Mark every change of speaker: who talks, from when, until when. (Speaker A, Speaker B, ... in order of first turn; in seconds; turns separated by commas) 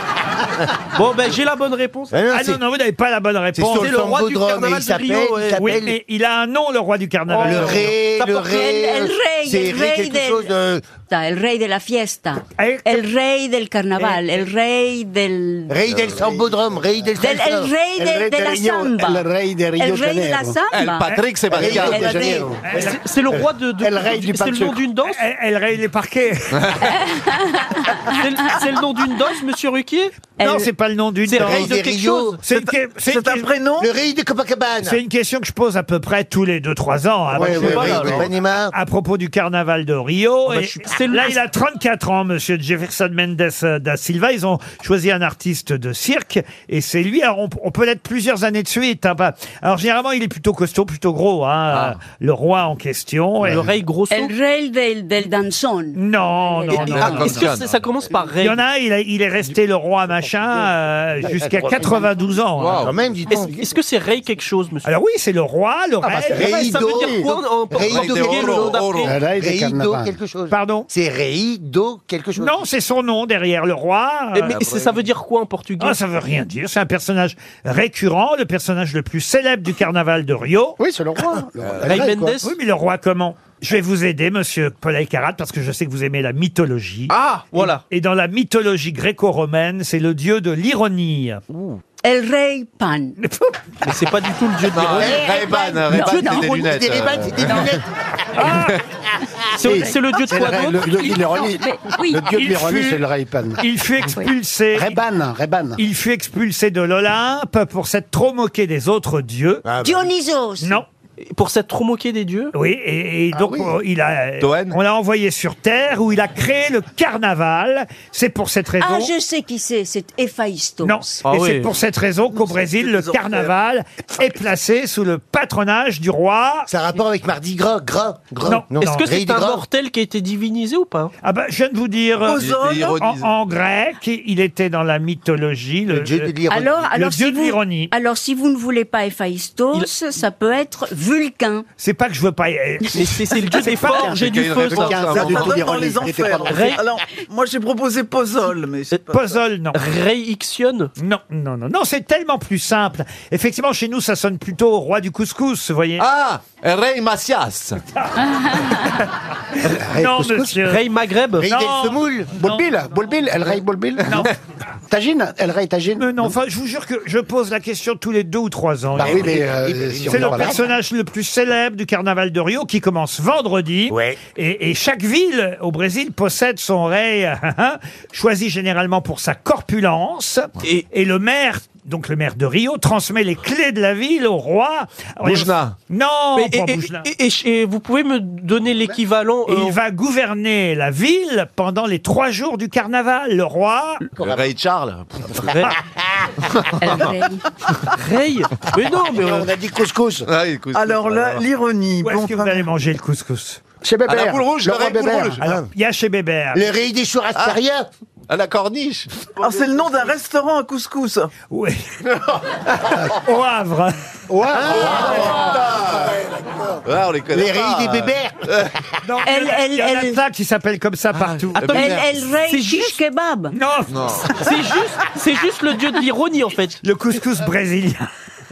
Speaker A: 0.9-2.1, Speaker B: 2.1-2.6, Speaker C: 2.3-3.9, Speaker B: 3.5-6.0, Speaker A: 3.7-5.7, Speaker C: 5.6-7.8, Speaker A: 7.3-8.4, Speaker B: 7.4-10.8, Speaker D: 8.3-10.5, Speaker D: 11.1-15.8, Speaker C: 12.6-13.0, Speaker B: 15.7-17.8, Speaker D: 17.1-19.2, Speaker E: 17.9-20.6, Speaker D: 19.8-21.1, Speaker F: 20.7-22.3, Speaker E: 21.4-24.8, Speaker B: 21.6-22.6, Speaker D: 21.7-22.5, Speaker C: 22.7-23.0, Speaker A: 22.7-25.2, Speaker C: 25.0-26.9, Speaker F: 26.5-26.9, Speaker D: 26.9-28.6, Speaker A: 28.1-30.4, Speaker C: 30.4-31.8, Speaker D: 30.4-30.6, Speaker A: 31.3-32.4, Speaker B: 31.4-32.4, Speaker C: 32.5-33.5, Speaker G: 32.5-33.9, Speaker B: 33.8-35.0, Speaker C: 34.8-38.0, Speaker E: 37.3-38.3, Speaker B: 37.4-38.7, Speaker A: 37.4-38.3, Speaker C: 38.7-53.6, Speaker A: 40.5-41.4, Speaker F: 51.7-52.0, Speaker A: 53.4-54.3, Speaker D: 54.1-57.3, Speaker C: 55.9-57.5, Speaker A: 56.7-58.6, Speaker F: 56.7-57.7, Speaker C: 58.4-62.9, Speaker B: 61.4-61.9, Speaker F: 62.6-63.0, Speaker B: 62.8-63.6, Speaker A: 63.3-64.9, Speaker C: 64.8-66.5, Speaker E: 66.1-67.3, Speaker B: 66.3-72.6, Speaker A: 66.3-69.2, Speaker F: 67.8-69.1, Speaker E: 69.0-70.1, Speaker C: 70.5-70.9, Speaker C: 72.3-74.6, Speaker A: 74.3-76.0, Speaker F: 74.5-75.0, Speaker C: 75.8-80.8, Speaker E: 80.8-82.4, Speaker F: 81.6-82.0, Speaker A: 81.8-82.5, Speaker C: 82.4-87.1, Speaker G: 87.1-87.5, Speaker A: 87.5-87.8, Speaker C: 87.9-91.4, Speaker D: 92.0-93.1, Speaker C: 93.2-93.5, Speaker A: 93.8-95.3, Speaker F: 94.7-97.7, Speaker B: 95.0-97.8, Speaker D: 95.0-96.8, Speaker D: 97.4-97.7, Speaker C: 98.4-98.8, Speaker F: 98.5-98.8, Speaker A: 99.5-101.2, Speaker E: 99.6-103.6, Speaker D: 101.1-102.3, Speaker C: 102.3-103.0, Speaker C: 103.6-105.0, Speaker E: 104.7-105.8, Speaker C: 105.8-109.6, Speaker B: 109.6-110.1, Speaker D: 109.8-110.8, Speaker A: 111.2-112.5, Speaker C: 112.5-119.1, Speaker E: 113.3-113.7, Speaker F: 114.4-114.8, Speaker D: 118.8-121.2, Speaker C: 120.8-126.7, Speaker A: 121.2-121.7, Speaker G: 122.6-123.5, Speaker B: 126.7-129.7, Speaker C: 128.4-129.4, Speaker A: 128.8-131.1, Speaker C: 131.2-136.3, Speaker G: 132.3-133.0, Speaker F: 132.3-133.3, Speaker B: 135.9-136.9, Speaker D: 136.5-141.7, Speaker C: 136.9-137.9, Speaker C: 141.8-144.1, Speaker A: 142.9-145.3, Speaker E: 143.6-146.8, Speaker F: 144.1-145.7, Speaker G: 145.1-149.4, Speaker A: 146.5-146.8, Speaker C: 149.1-149.8, Speaker A: 149.7-150.9, Speaker C: 151.0-156.1, Speaker F: 156.0-157.8, Speaker C: 158.0-159.0, Speaker D: 158.4-158.7, Speaker C: 159.6-160.8, Speaker E: 159.7-160.5, Speaker A: 160.6-161.5, Speaker B: 161.4-162.3, Speaker C: 161.4-162.6, Speaker E: 162.3-164.3, Speaker C: 164.1-164.3, Speaker E: 164.9-166.3, Speaker C: 166.0-169.4, Speaker E: 169.0-170.6, Speaker B: 169.0-170.6, Speaker C: 170.1-187.1, Speaker B: 173.9-174.2, Speaker F: 185.2-185.8, Speaker A: 186.3-189.8, Speaker C: 189.5-194.0, Speaker F: 194.2-195.5, Speaker A: 195.4-195.7, Speaker F: 196.6-197.1, Speaker D: 196.8-197.4, Speaker A: 197.9-199.5, Speaker E: 199.1-200.3, Speaker F: 200.2-201.4, Speaker G: 200.7-202.7, Speaker C: 202.0-203.6, Speaker E: 203.8-205.5, Speaker F: 204.1-205.4, Speaker C: 205.4-206.6, Speaker B: 206.5-207.9, Speaker F: 208.3-209.1, Speaker G: 209.4-211.3, Speaker C: 211.5-211.8, Speaker C: 213.1-213.9, Speaker E: 214.3-215.4, Speaker B: 214.6-216.7, Speaker F: 214.7-216.1, Speaker F: 216.8-218.7, Speaker B: 217.3-218.7, Speaker C: 219.0-221.7, Speaker D: 219.2-220.2, Speaker F: 221.1-222.2, Speaker A: 221.6-223.0, Speaker D: 221.7-223.6, Speaker C: 223.5-224.2, Speaker F: 223.9-224.4, Speaker A: 224.3-226.8, Speaker C: 226.8-228.1